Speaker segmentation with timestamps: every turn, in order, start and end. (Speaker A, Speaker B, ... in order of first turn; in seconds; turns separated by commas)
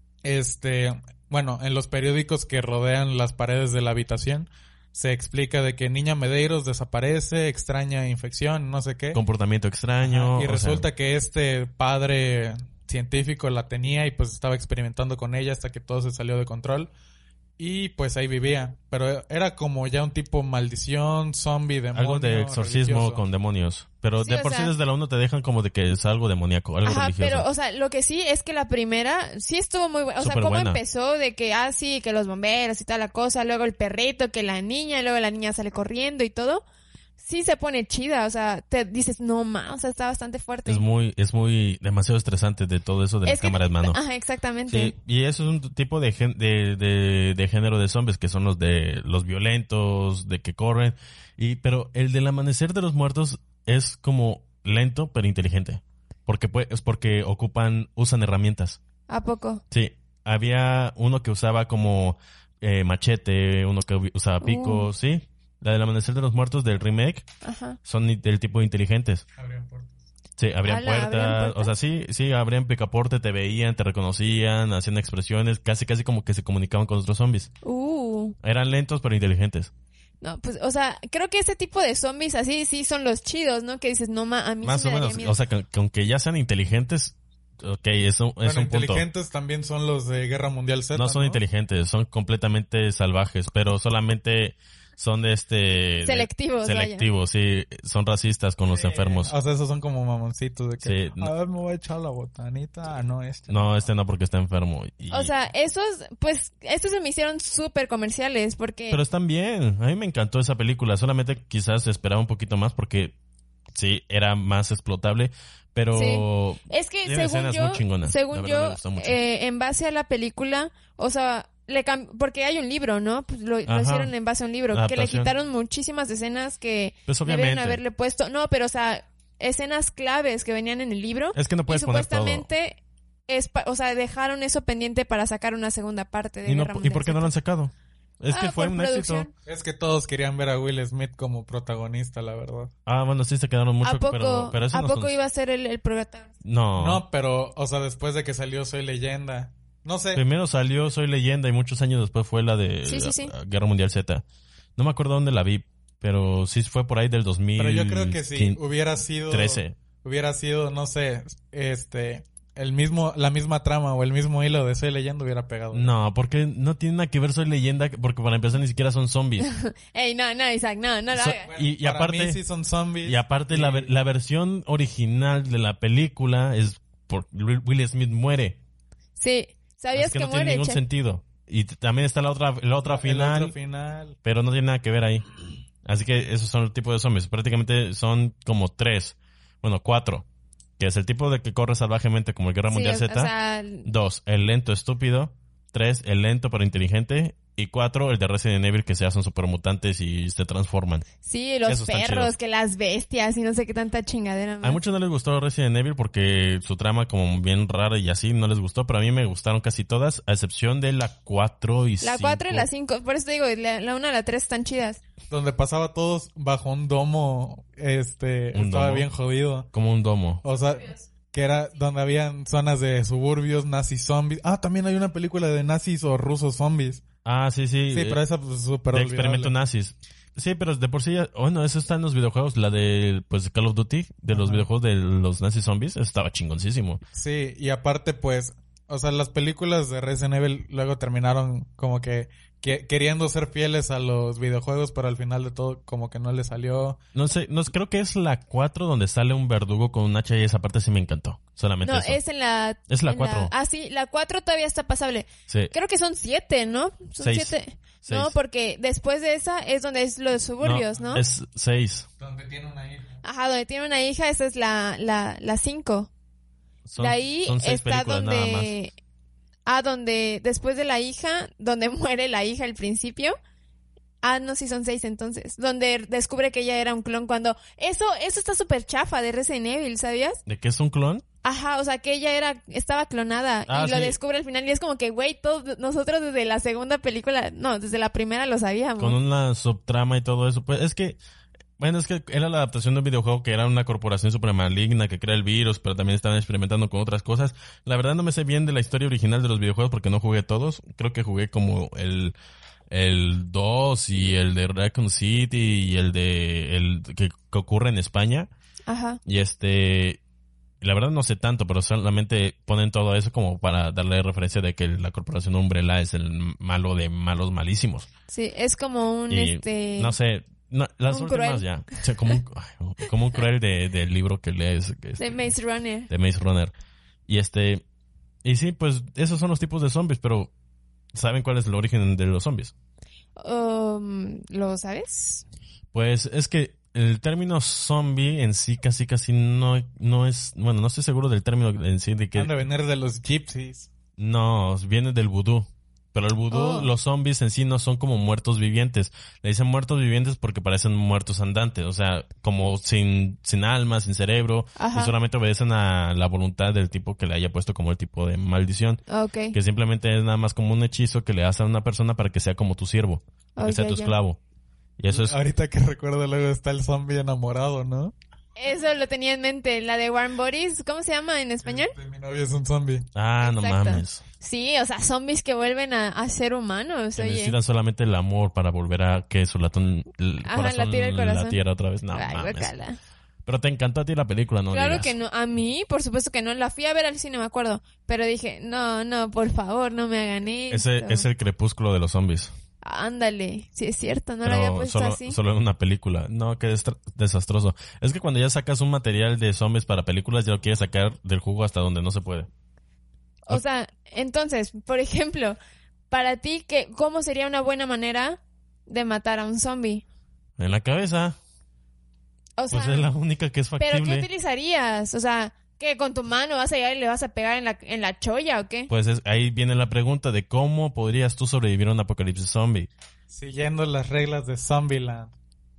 Speaker A: 0.2-9.2, Speaker B: 9.1-10.9, Speaker A: 10.0-16.9, Speaker A: 17.6-23.2, Speaker B: 21.9-27.5, Speaker C: 24.2-24.7, Speaker C: 26.8-36.6, Speaker B: 30.2-30.8, Speaker C: 37.2-40.8, Speaker B: 40.6-44.0, Speaker C: 43.2-44.9, Speaker B: 44.7-58.8, Speaker C: 59.1-59.6, Speaker B: 59.7-67.2, Speaker C: 64.4-64.9, Speaker C: 67.4-67.8, Speaker B: 67.8-69.2, Speaker A: 69.4-70.0, Speaker B: 70.4-77.5, Speaker C: 70.6-71.7, Speaker C: 77.6-78.3, Speaker B: 78.4-79.7, Speaker C: 80.2-85.4, Speaker B: 84.6-89.0, Speaker A: 88.4-91.4, Speaker B: 90.9-99.3, Speaker C: 96.0-97.0, Speaker A: 98.7-103.9, Speaker B: 100.8-101.3, Speaker B: 103.5-105.3, Speaker C: 105.1-109.0, Speaker B: 108.9-113.1, Speaker B: 113.7-119.2, Speaker C: 115.9-137.3, Speaker B: 123.7-124.1, Speaker B: 124.7-125.3, Speaker B: 127.1-127.8, Speaker B: 131.3-132.5, Speaker B: 136.4-139.3, Speaker C: 138.3-139.3, Speaker A: 139.4-142.7, Speaker B: 142.8-145.2, Speaker C: 143.8-146.3, Speaker B: 146.4-147.0, Speaker A: 146.8-150.2, Speaker B: 150.1-154.2, Speaker C: 152.8-153.3, Speaker B: 154.8-158.6, Speaker A: 157.6-165.9, Speaker B: 159.3-159.7, Speaker B: 165.7-169.5, Speaker C: 169.4-171.5, Speaker B: 171.1-172.4, Speaker A: 171.4-173.9, Speaker B: 173.0-178.6, Speaker C: 179.2-180.8, Speaker B: 179.9-183.5, Speaker A: 182.8-184.2, Speaker B: 184.2-185.2, Speaker B: 185.8-190.2, Speaker B: 190.8-193.3, Speaker C: 192.7-193.9, Speaker B: 193.8-201.1, Speaker C: 201.2-204.8, Speaker B: 201.7-202.3, Speaker B: 204.6-212.7, Speaker C: 212.0-215.0, Speaker A: 215.3-219.7, Speaker B: 218.5-219.1, Speaker B: 219.7-220.4, Speaker A: 220.4-227.0, Speaker B: 227.2-228.2, Speaker A: 227.9-229.5, Speaker B: 228.9-237.0, Speaker A: 234.3-234.7, Speaker A: 237.1-247.0, Speaker B: 247.1-252.2, Speaker C: 251.8-261.2, Speaker B: 252.9-253.5, Speaker B: 255.5-255.7, Speaker B: 257.2-258.3, Speaker B: 260.6-262.1, Speaker A: 262.2-263.1, Speaker C: 263.2-266.1, Speaker B: 266.9-268.7, Speaker C: 267.0-268.9, Speaker C: 269.6-273.4, Speaker C: 274.2-280.4, Speaker B: 280.4-281.2, Speaker C: 281.4-289.2, Speaker B: 283.7-284.2, Speaker B: 289.0-291.2, Speaker B: 291.8-302.3, Speaker B: 302.9-308.5, Speaker C: 308.9-309.2, Speaker B: 309.2-310.2, Speaker B: 310.8-318.1, Speaker C: 318.3-320.1, Speaker B: 319.3-325.4, Speaker C: 321.1-322.0, Speaker C: 325.2-326.1, Speaker B: 326.1-326.7, Speaker B: 327.3-327.8, Speaker B: 328.4-330.5, Speaker B: 331.1-332.7, Speaker C: 333.4-335.4, Speaker B: 335.9-342.5, Speaker A: 342.3-343.9, Speaker B: 344.2-359.0, Speaker C: 346.5-346.9, Speaker C: 354.8-355.1, Speaker C: 359.1-359.6, Speaker B: 359.5-364.4, Speaker C: 363.6-364.1, Speaker B: 365.0-365.4, Speaker A: 365.1-368.1, Speaker C: 368.6-371.9, Speaker A: 371.6-373.1, Speaker B: 373.1-374.2, Speaker C: 373.4-377.6, Speaker B: 377.1-382.7, Speaker C: 380.4-381.6, Speaker C: 382.1-383.0, Speaker B: 383.4-385.1, Speaker C: 384.7-391.3, Speaker B: 390.7-392.5, Speaker C: 392.8-395.4, Speaker B: 394.4-402.5, Speaker C: 403.4-405.6, Speaker C: 406.1-410.0, Speaker B: 410.6-411.4, Speaker C: 412.6-413.1, Speaker B: 412.7-414.3, Speaker C: 413.8-418.9, Speaker B: 418.9-422.9, Speaker A: 423.3-425.3